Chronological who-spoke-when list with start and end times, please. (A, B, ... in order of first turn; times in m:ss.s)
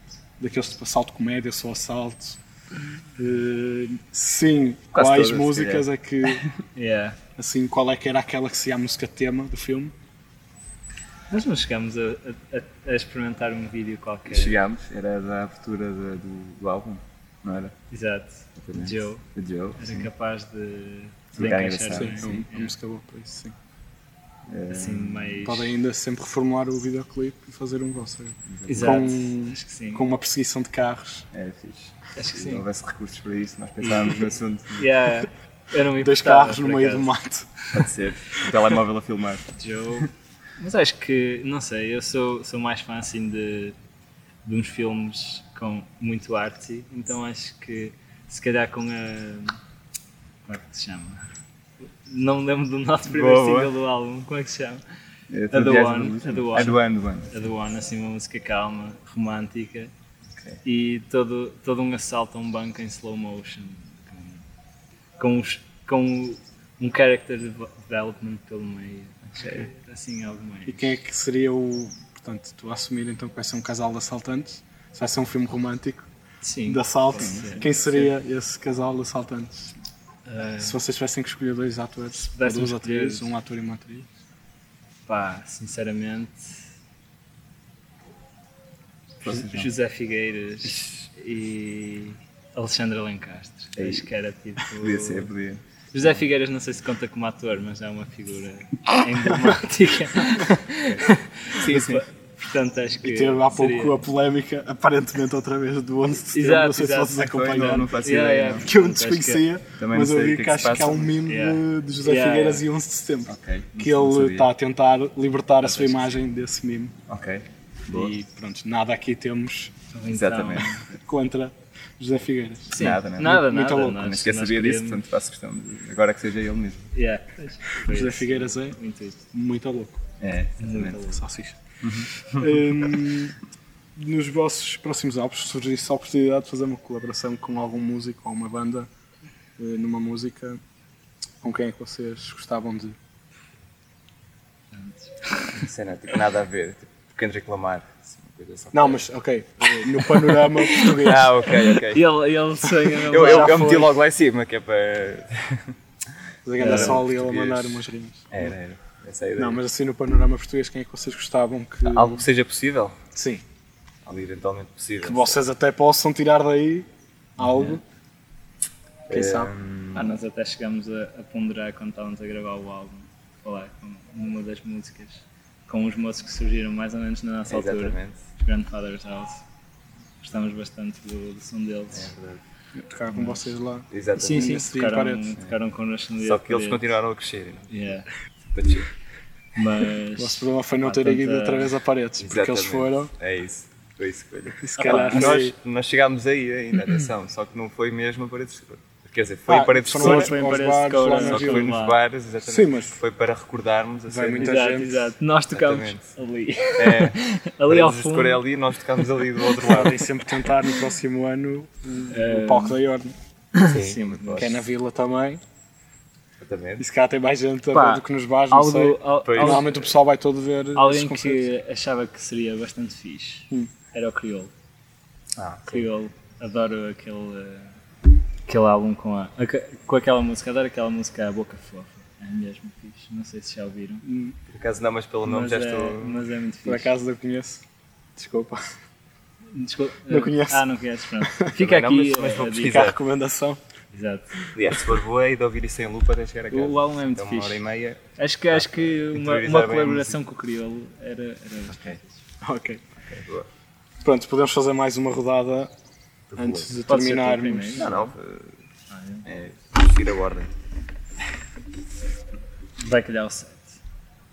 0:00.4-0:02.4 A
0:03.2-0:06.6 A
0:04.9-0:06.3 B
0:06.7-0:07.2 C
0:07.4-0:09.9 A
0:11.3-0:14.6 C
0:14.3-0:17.7 B
0:17.9-0:19.2 C
0:18.6-0:20.1 B
0:19.8-0:22.7 C
0:21.3-0:22.2 B
0:21.9-0:23.5 A
0:24.5-0:25.4 B
0:24.7-0:25.7 C
0:25.4-0:31.2 A
0:28.5-0:29.0 B
0:28.7-0:30.0 C
0:31.3-0:34.9 B
0:32.2-0:32.6 C
0:33.8-0:37.1 C
0:36.0-0:38.5 A
0:37.7-0:39.6 B
0:39.6-0:43.8 C
0:44.4-0:49.6 C
0:50.4-0:51.2 C
0:52.0-0:54.8 C
0:53.1-0:53.7 B
0:55.3-0:57.3 B
0:55.5-0:59.9 C
1:00.3-1:00.6 B
1:00.6-1:04.4 C
1:05.2-1:11.0 C
1:09.4-1:09.6 B
1:10.7-1:16.0 A
1:16.4-1:18.1 C
1:16.7-1:19.7 A
1:17.1-1:17.6 B
1:20.2-1:20.8 C
1:20.6-1:24.1 A
1:22.3-1:23.3 C
1:25.1-1:26.6 C
1:29.2-1:29.7 B
1:29.2-1:35.3 C
1:33.8-1:34.1 B
1:34.7-1:35.6 B
1:35.9-1:44.0 C
1:40.9-1:42.0 B
1:43.0-1:47.9 A
1:46.3-1:49.4 C
1:47.2-1:48.6 B
1:48.5-1:56.9 A
1:49.8-1:51.2 B
1:51.2-1:52.6 C
1:53.2-1:54.5 B
1:55.6-1:56.1 C
1:57.1-1:58.1 B
1:57.9-1:59.7 A
1:59.9-2:00.8 C
2:00.1-2:00.8 B
2:01.0-2:04.1 A
2:02.7-2:05.0 C
2:02.8-2:06.9 B
2:06.9-2:09.2 C
2:07.8-2:08.8 A
2:09.3-2:10.0 A
2:10.2-2:11.0 B
2:10.6-2:11.2 C
2:10.8-2:11.6 A
2:11.8-2:12.6 B
2:12.2-2:13.4 A
2:14.0-2:18.9 A
2:19.6-2:20.6 A
2:21.4-2:22.9 A
2:24.7-2:25.6 C
2:25.5-2:29.0 B
2:28.7-2:31.6 A
2:30.2-2:33.9 C
2:30.7-2:32.1 B
2:33.0-2:35.8 B
2:33.1-2:33.9 A
2:36.4-2:38.5 A
2:36.6-2:37.0 C
2:36.6-2:39.6 B
2:39.4-2:42.2 A
2:41.8-2:43.0 B
2:43.1-2:43.4 A
2:44.0-2:45.4 B
2:45.0-2:46.8 A
2:47.4-2:47.8 A
2:47.4-2:47.8 B
2:49.1-2:50.2 B
2:49.1-2:49.5 A
2:49.9-2:59.4 C
2:57.5-2:58.2 B
3:00.2-3:02.1 C
3:01.9-3:02.4 B
3:02.8-3:05.4 A
3:03.1-3:03.5 C
3:03.9-3:04.5 B
3:04.2-3:06.9 C
3:06.2-3:07.7 B
3:07.7-3:08.1 C
3:08.5-3:08.9 B
3:09.6-3:11.7 C
3:10.2-3:13.1 A
3:12.2-3:20.4 B
3:14.6-3:15.5 A
3:14.8-3:15.4 C
3:19.5-3:21.7 A
3:19.9-3:22.0 C
3:21.1-3:24.7 B
3:22.4-3:23.0 A
3:24.1-3:25.1 A
3:24.4-3:28.4 C
3:25.5-3:26.1 B
3:26.8-3:30.1 B
3:29.6-3:33.1 A
3:32.1-3:32.8 C
3:33.6-3:34.5 C
3:33.6-3:34.6 B
3:34.4-3:35.4 A
3:36.4-3:36.8 B
3:36.8-3:41.5 A
3:37.7-3:39.8 C
3:39.2-3:39.8 B
3:40.7-3:44.5 C
3:45.3-3:45.9 B
3:45.7-3:47.7 C
3:48.5-3:54.0 C
3:54.0-3:54.4 A
3:54.5-3:56.2 B
3:55.2-3:56.9 C
3:56.6-3:57.6 A
3:58.2-3:58.6 A
3:59.5-4:02.9 C
4:00.1-4:01.6 A
4:01.5-4:03.0 B
4:02.6-4:03.6 A
4:03.9-4:04.5 C
4:04.5-4:10.2 B
4:06.5-4:07.6 C
4:08.2-4:12.2 C
4:11.7-4:12.0 B
4:12.4-4:12.8 A
4:13.0-4:13.5 B
4:14.0-4:15.7 A
4:16.3-4:16.8 B
4:16.4-4:18.0 A
4:16.8-4:18.1 C
4:17.7-4:18.6 B
4:18.9-4:19.3 C
4:19.2-4:20.5 B
4:22.8-4:23.8 C